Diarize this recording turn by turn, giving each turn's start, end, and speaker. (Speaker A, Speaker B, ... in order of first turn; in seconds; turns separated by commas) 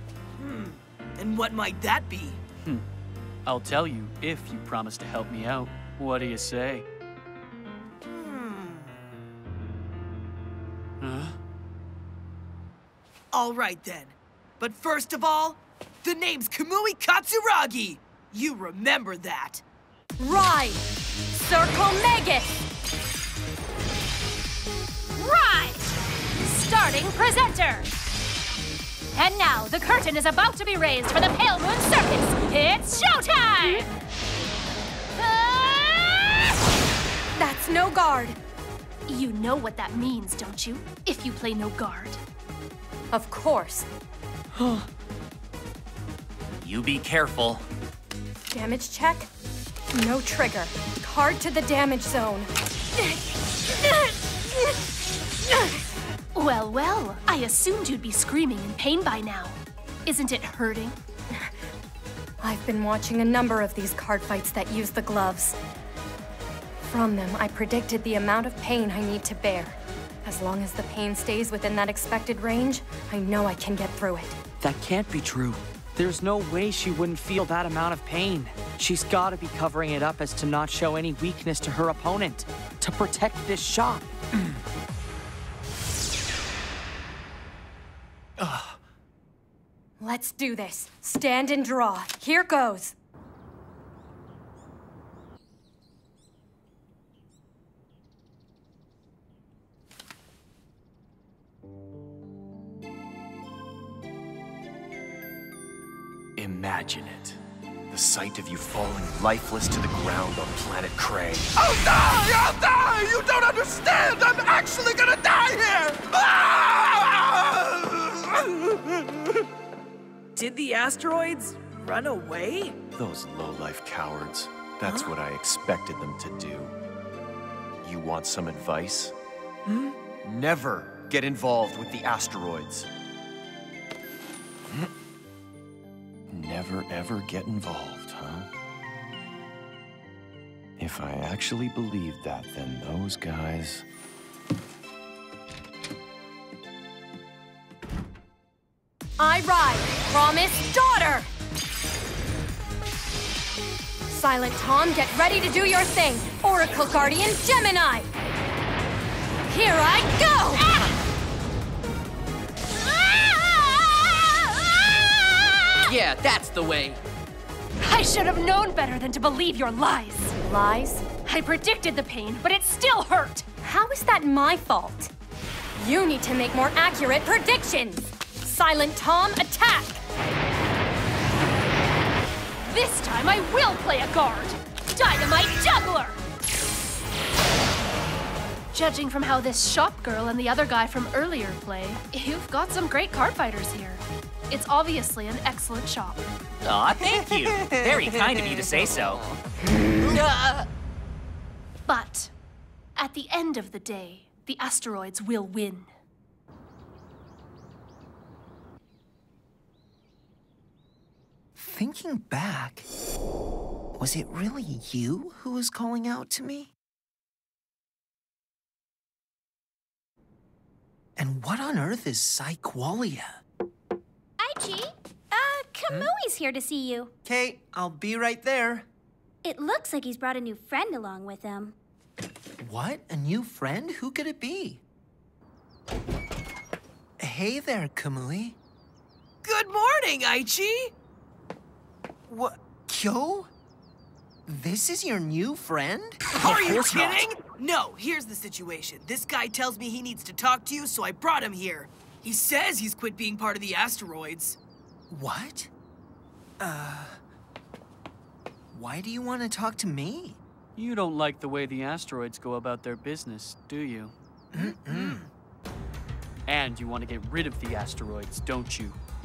Speaker A: 0.4-2.4, Speaker B: 3.5-6.8, Speaker A: 8.1-9.0, Speaker B: 11.0-11.4, Speaker A: 13.3-19.6, Speaker C: 20.2-22.6, Speaker D: 25.2-25.9, Speaker D: 26.4-27.9, Speaker D: 29.1-33.9, Speaker D: 35.2-36.5, Speaker C: 37.4-38.4, Speaker D: 39.1-42.2, Speaker C: 43.1-43.9, Speaker E: 46.6-47.6, Speaker C: 48.5-49.3, Speaker C: 49.9-54.8, Speaker C: 55.5-55.8, Speaker D: 56.4-61.0, Speaker C: 62.4-65.6, Speaker C: 66.8-74.4, Speaker F: 74.6-77.0, Speaker F: 79.0-79.3, Speaker F: 80.1-80.5, Speaker F: 81.3-81.8, Speaker F: 82.8-84.0, Speaker C: 90.0-93.0, Speaker G: 106.4-111.5, Speaker A: 120.4-122.8, Speaker G: 122.9-126.8, Speaker G: 127.8-129.1, Speaker G: 130.2-132.9, Speaker G: 136.3-138.5, Speaker G: 140.8-143.9, Speaker C: 149.2-151.3, Speaker C: 154.1-158.1, Speaker C: 159.5-160.9, Speaker D: 163.1-164.4, Speaker F: 165.8-167.0, Speaker D: 167.8-170.3, Speaker C: 170.4-171.1, Speaker D: 171.2-173.5, Speaker C: 173.6-175.1, Speaker C: 175.8-180.0, Speaker D: 182.6-186.2, Speaker D: 188.7-196.2, Speaker E: 196.6-199.2, Speaker D: 201.9-202.3, Speaker D: 203.0-205.9, Speaker H: 211.6-212.8, Speaker H: 214.0-216.7, Speaker H: 221.2-223.4, Speaker I: 224.4-227.1, Speaker H: 225.9-226.1, Speaker H: 227.2-228.9, Speaker I: 229.4-231.7, Speaker H: 232.6-234.8, Speaker H: 237.2-238.6, Speaker A: 239.4-240.9, Speaker H: 242.3-243.5, Speaker H: 244.5-247.2, Speaker A: 246.3-254.6, Speaker H: 255.1-255.7, Speaker H: 256.6-257.2, Speaker H: 258.7-260.4, Speaker B: 260.8-264.1, Speaker H: 264.5-265.3, Speaker A: 264.6-265.2, Speaker B: 266.5-269.0